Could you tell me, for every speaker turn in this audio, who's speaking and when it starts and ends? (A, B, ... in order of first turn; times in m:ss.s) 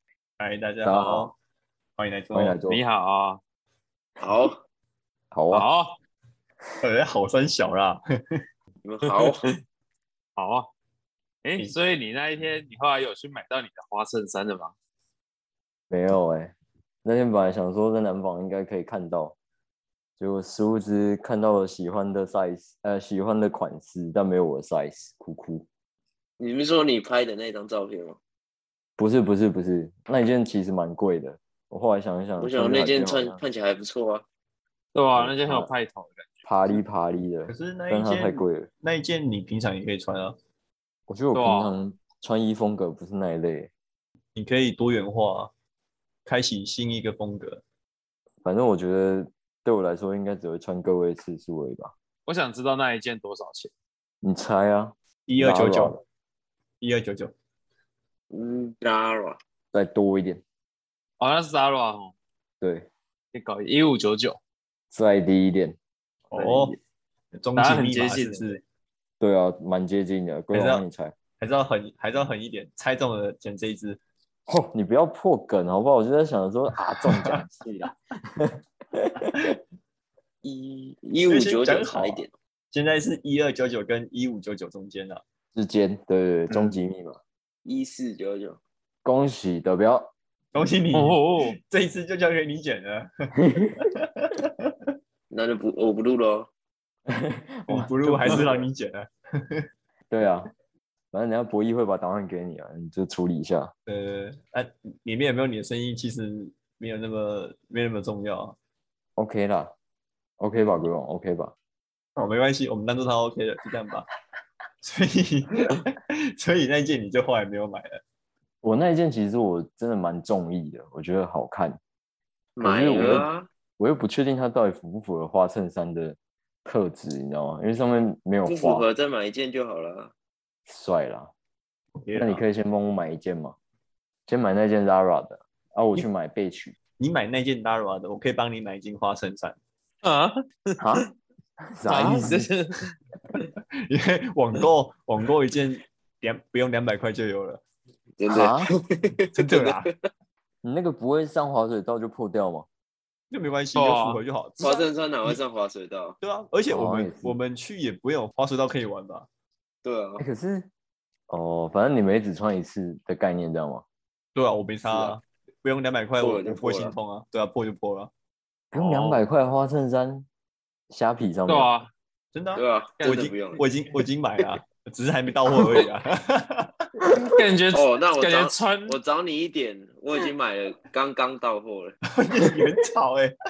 0:00.4-0:01.3 A
0:00.8-0:01.3 B
0:02.0-0:02.6 A
0:02.3-0:02.8 B
0:02.7-0:03.4 C
0:04.2-0:04.6 D
0:05.3-0:05.7 B
0:05.5-0:06.0 C
0:06.8-0:08.0 A
0:08.8-0:09.4 D
0:10.4-0:10.7 C
0:11.4-0:14.7 C
0:15.9-0:16.5 B
0:17.0-0:19.3 B
0:20.2-0:25.6 B
0:26.4-0:28.2 D
0:29.0-0:33.4 B
0:32.4-0:34.2 D
0:34.9-0:36.4 C
0:35.1-0:35.7 B
0:36.4-0:38.7 B
0:37.5-0:40.3 A
0:41.1-0:43.7 B
0:41.3-0:41.7 C
0:44.3-0:45.5 A
0:46.2-0:47.6 A
0:48.4-0:51.9 B
0:52.2-0:53.7 C
0:54.2-0:56.0 B
0:55.3-0:56.0 A
0:56.8-0:57.3 A
0:58.3-0:59.4 D
0:59.7-1:00.4 B
1:01.2-1:02.1 C
1:02.6-1:02.9 B
1:03.3-1:04.4 C
1:04.9-1:05.8 B
1:06.3-1:06.8 A
1:06.3-1:06.8 C
1:07.3-1:08.6 A
1:07.6-1:08.4 C
1:09.2-1:11.1 B
1:10.5-1:10.8 A
1:11.4-1:14.0 A
1:14.5-1:19.5 B
1:17.0-1:17.4 A
1:20.4-1:22.3 D
1:21.3-1:25.2 A
1:25.5-1:27.2 B
1:26.5-1:26.8 A
1:27.6-1:28.6 D
1:29.0-1:30.1 B
1:30.5-1:34.9 A
1:30.9-1:31.6 C
1:33.4-1:33.8 B
1:35.3-1:36.5 D
1:37.1-1:38.6 B
1:37.7-1:39.7 A
1:40.1-1:40.5 B
1:41.1-1:43.7 B
1:43.9-1:48.5 A
1:49.2-1:49.7 B
1:50.4-1:51.5 B
1:52.2-1:54.1 A
1:54.8-1:58.0 A
1:58.6-2:01.8 B
2:02.6-2:03.5 D
2:02.6-2:08.8 B
2:08.4-2:10.1 D
2:10.7-2:11.3 B
2:12.0-2:12.4 A
2:12.2-2:13.6 B
2:14.3-2:16.7 B
2:17.0-2:19.6 A
2:20.0-2:21.0 C
2:20.8-2:21.0 B
2:21.7-2:22.5 B
2:21.9-2:22.9 C
2:21.9-2:22.5 A
2:23.9-2:27.6 A
2:28.2-2:29.9 D
2:28.3-2:28.7 B
2:29.3-2:29.9 A
2:30.6-2:32.7 B
2:33.3-2:35.4 A
2:33.8-2:34.2 C
2:34.6-2:36.2 D
2:36.2-2:39.2 A
2:36.7-2:37.4 B
2:39.8-2:40.2 D
2:40.2-2:40.7 B
2:41.3-2:43.8 B
2:44.3-2:48.1 A
2:44.9-2:45.1 D
2:46.2-2:47.0 D
2:48.7-2:50.3 B
2:48.8-2:49.1 C
2:50.9-2:51.7 B
2:51.5-2:51.9 C
2:52.3-2:56.8 A
2:52.6-2:53.6 D
2:57.1-2:59.0 C
2:57.7-3:02.0 D
3:02.1-3:03.3 A